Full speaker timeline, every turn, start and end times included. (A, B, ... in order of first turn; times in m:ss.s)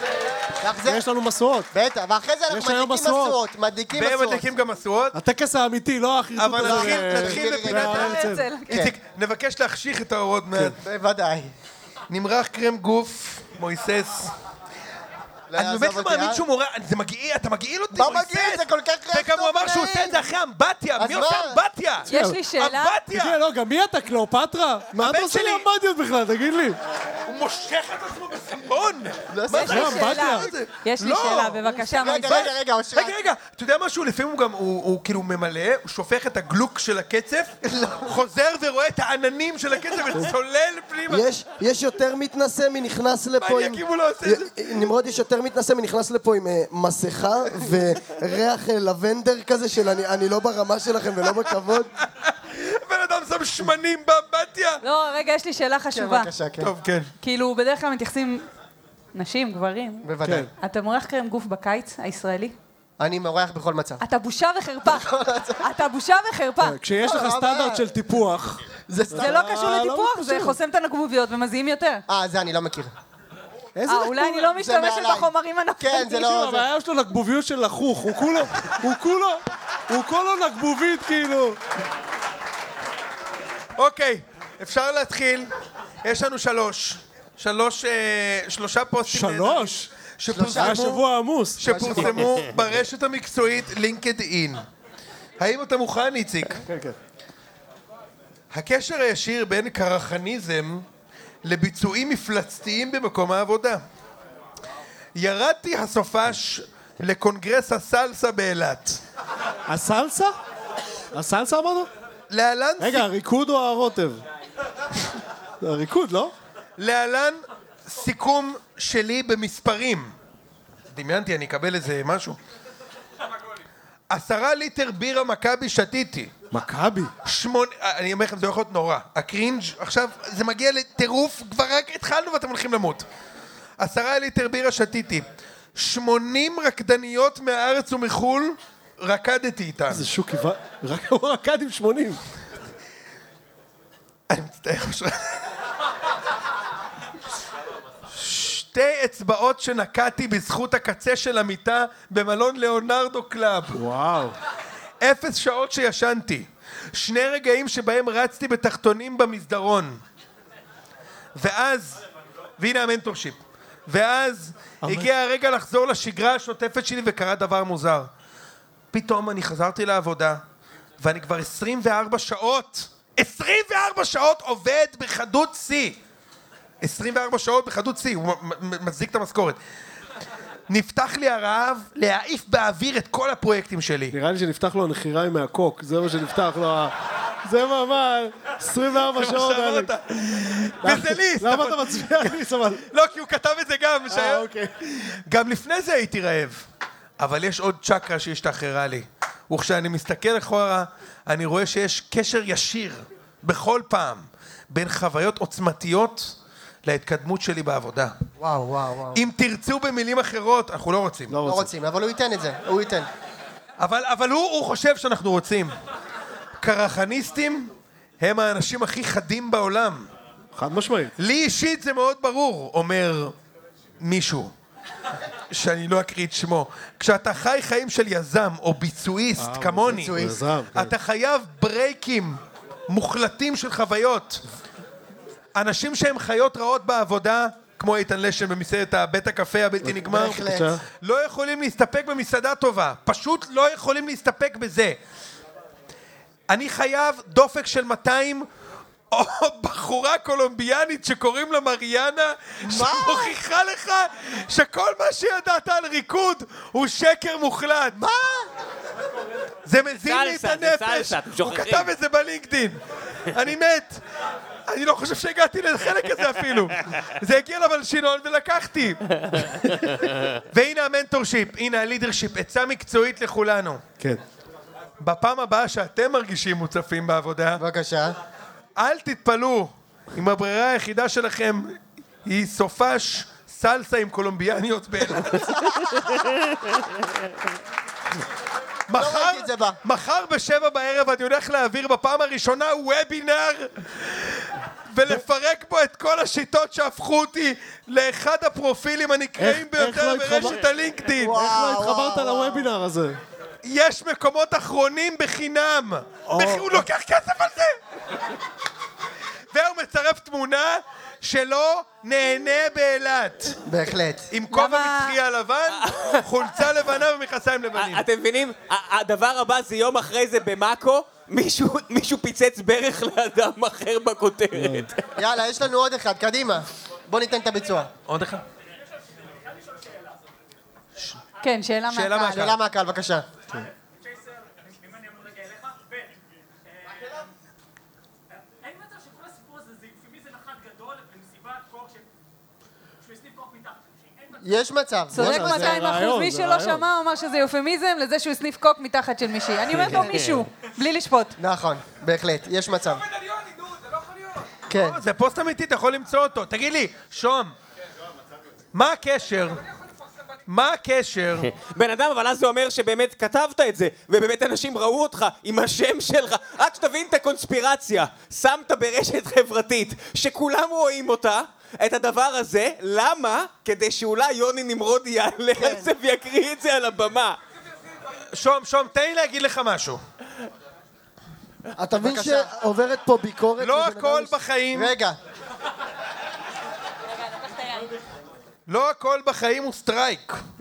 0:00.6-0:01.0 A
0:00.8-0:01.7 B
0:01.7-0:04.4 A
0:02.5-0:03.4 B
0:03.9-0:05.2 C
0:05.1-0:08.5 B
0:06.4-0:10.8 C
0:06.6-0:08.9 A
0:07.9-0:08.8 D
0:10.8-0:11.5 A
0:12.1-0:14.3 C
0:15.5-0:16.4 A
0:15.6-0:23.4 C
0:17.9-0:20.2 A
0:21.0-0:21.6 A
0:22.1-0:22.4 B
0:22.1-0:23.0 D
0:23.1-0:26.8 B
0:24.9-0:25.7 C
0:27.3-0:41.3 C
0:29.3-0:29.9 A
0:29.5-0:32.5 D
0:29.6-0:30.5 B
0:31.9-0:33.2 A
0:37.7-0:38.1 A
0:41.1-0:51.9 E
0:43.4-0:44.7 C
0:52.1-0:54.8 C
0:54.8-0:56.3 D
0:55.9-0:56.7 A
0:56.6-0:57.1 C
0:57.2-0:58.4 D
0:59.2-1:02.6 D
1:00.0-1:00.5 A
1:00.2-1:00.5 B
1:03.0-1:04.0 A
1:04.0-1:05.1 D
1:04.9-1:05.6 A
1:05.6-1:06.8 D
1:06.6-1:10.6 B
1:07.0-1:07.8 A
1:08.9-1:09.5 A
1:09.2-1:12.0 D
1:12.1-1:12.9 A
1:13.8-1:14.5 B
1:13.9-1:16.2 D
1:14.6-1:16.7 A
1:16.0-1:21.6 B
1:23.8-1:25.5 C
1:26.0-1:31.0 C
1:29.1-1:29.9 B
1:30.3-1:31.0 A
1:30.5-1:32.0 B
1:31.6-1:34.6 C
1:31.6-1:32.4 A
1:35.4-1:36.6 C
1:36.7-1:37.0 B
1:38.5-1:40.8 C
1:41.4-1:43.8 C
1:45.2-1:49.0 C
1:49.7-1:50.3 B
1:51.1-1:51.9 B
1:52.3-1:53.1 C
1:52.8-1:54.2 B
1:55.6-1:56.3 B
1:56.8-2:00.1 C
2:00.9-2:02.4 C
2:04.1-2:06.3 C
2:06.5-2:07.1 B
2:07.2-2:13.0 C
2:13.8-2:15.2 C
2:15.8-2:20.1 C
2:19.9-2:22.2 B
2:24.3-2:25.2 C
2:28.1-2:33.8 C
2:33.7-2:34.4 B
2:35.0-2:40.0 C
2:41.4-2:42.0 C
2:42.6-2:48.1 C
2:44.8-2:45.1 B
2:48.9-2:50.4 C
2:51.0-2:56.0 C
2:56.8-2:59.6 C
3:00.7-3:04.2 C
3:04.1-3:06.9 B
3:07.4-3:09.9 B
3:09.0-3:12.4 C
3:10.8-3:12.8 B
3:12.9-3:16.6 C
3:14.1-3:14.7 B
3:17.2-3:28.1 C
3:28.4-3:29.2 A
3:29.1-3:31.4 C
3:31.3-3:31.7 B
3:31.4-3:33.1 A
3:33.8-3:35.7 C
3:36.6-3:40.1 C
3:40.6-3:41.1 B
3:41.2-3:43.3 C
3:44.0-3:44.5 C
3:45.5-3:50.2 C
3:49.4-3:50.9 B
3:49.9-3:50.4 A
3:50.7-3:54.4 C
3:55.6-4:05.0 C
3:59.8-4:00.8 B
4:00.1-4:00.7 A
4:06.5-4:08.5 C
4:09.1-4:18.0 C
4:12.6-4:13.3 A
4:18.0-4:18.5 A
4:19.6-4:22.8 C
4:20.0-4:21.9 F
4:23.3-4:24.0 C
4:24.7-4:29.5 C
4:30.4-4:33.8 C
4:35.0-4:37.6 C
4:37.6-4:38.2 A
4:38.8-4:45.8 C
4:45.6-4:46.2 A
4:48.9-5:01.4 C
4:49.0-4:49.8 A
4:59.4-5:00.6 B
5:01.2-5:02.7 A
5:01.2-5:03.2 B
5:03.6-5:07.7 C
5:06.3-5:06.8 B
5:09.5-5:13.6 C
5:13.7-5:14.3 A
5:14.3-5:18.0 C
5:14.5-5:15.2 D
5:15.8-5:16.2 F
5:17.8-5:25.0 F
5:24.5-5:24.9 B
5:25.2-5:27.9 A
5:28.1-5:28.4 C
5:31.4-5:32.5 D
5:31.9-5:32.6 C
5:32.3-5:33.2 A
5:44.4-5:45.8 A
5:45.1-5:51.4 D
5:45.2-5:46.9 B
5:50.0-5:50.3 F
5:51.4-5:53.0 A
5:54.7-5:55.0 A
5:54.8-5:57.5 C
5:58.7-5:59.6 C
6:00.5-6:01.5 C
6:01.5-6:17.4 F
6:15.6-6:15.9 A
6:18.3-6:20.0 C
6:21.8-6:24.3 E
6:22.0-6:22.5 A
6:23.6-6:24.9 C
6:24.7-6:25.2 A
6:28.7-6:30.4 C